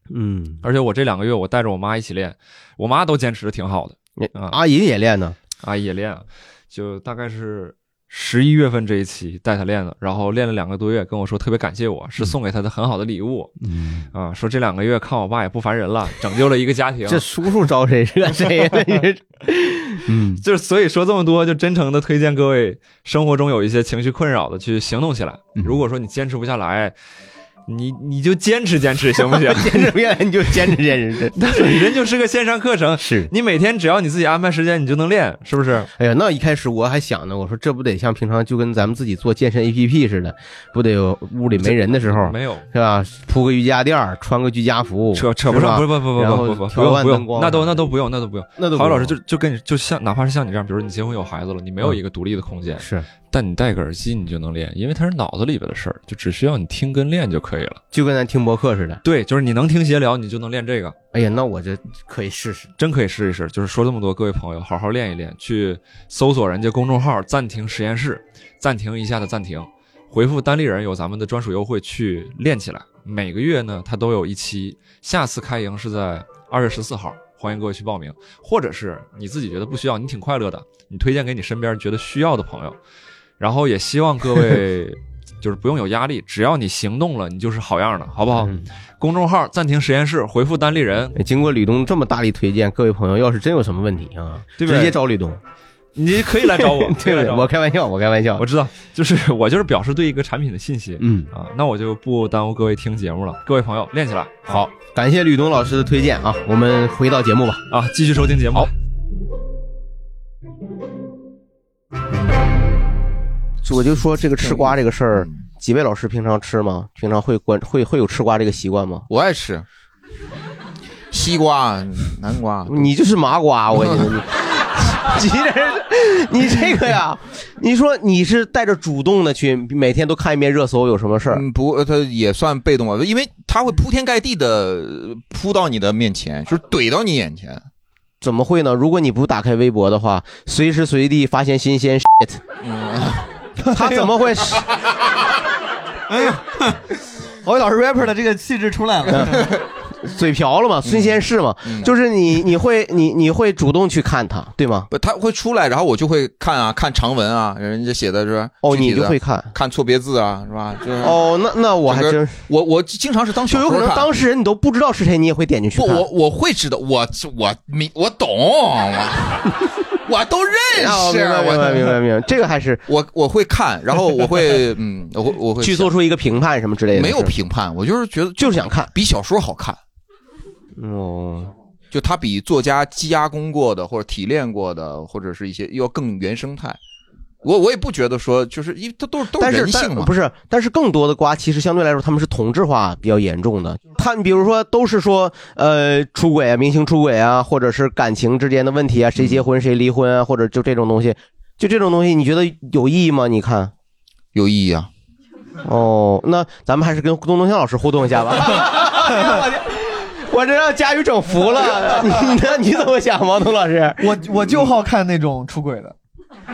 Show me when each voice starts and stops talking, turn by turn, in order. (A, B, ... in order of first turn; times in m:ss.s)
0:00.1-0:00.6 A
0:00.6-0:04.6 B
0:04.2-0:05.4 A
0:05.6-0:13.5 B
0:13.6-0:14.0 A
0:14.1-0:17.2 B
0:17.1-0:20.4 A
0:20.4-0:26.9 B
0:27.7-0:29.9 B
0:29.3-0:31.7 A
0:31.4-0:35.9 B
0:33.0-0:33.3 A
0:36.0-0:47.8 A
0:41.6-0:42.6 B
0:45.1-0:57.8 B
0:48.6-0:49.1 A
0:52.8-0:53.1 A
0:57.9-0:59.0 A
0:59.0-1:00.9 B
1:01.1-1:02.7 A
1:02.8-1:22.8 B
1:23.4-1:31.2 B
1:28.4-1:28.6 A
1:31.2-1:35.4 A
1:34.6-1:35.0 B
1:35.9-1:37.5 B
1:36.4-1:38.4 A
1:38.4-1:44.5 B
1:41.0-1:41.3 A
1:44.5-1:47.6 A
1:47.7-1:48.7 B
1:53.6-1:59.1 A
1:54.4-1:54.7 C
1:59.1-1:59.6 C
2:01.1-2:02.9 C
2:02.7-2:11.4 A
2:11.3-2:17.6 C
2:18.2-2:22.4 A
2:22.6-2:23.2 C
2:23.7-2:24.1 D
2:23.7-2:24.6 A
2:26.1-2:26.8 D
2:27.4-2:29.5 D
2:29.1-2:29.4 A
2:30.0-2:34.9 A
2:30.8-2:31.9 C
2:34.9-2:41.2 C
2:38.6-2:39.5 A
2:41.0-2:42.4 A
2:41.9-2:44.1 C
2:43.4-2:46.0 A
2:45.7-2:51.9 C
2:50.7-2:52.8 A
2:52.9-2:55.9 C
2:55.6-2:57.3 A
2:56.9-2:59.8 C
2:58.4-2:58.9 A
3:00.8-3:01.5 A
3:01.9-3:06.8 C
3:07.4-3:10.1 C
3:09.4-3:23.7 A
3:24.3-3:24.9 C
3:25.6-3:29.4 A
3:29.1-3:29.4 D
3:30.2-3:34.1 A
3:34.0-3:35.9 D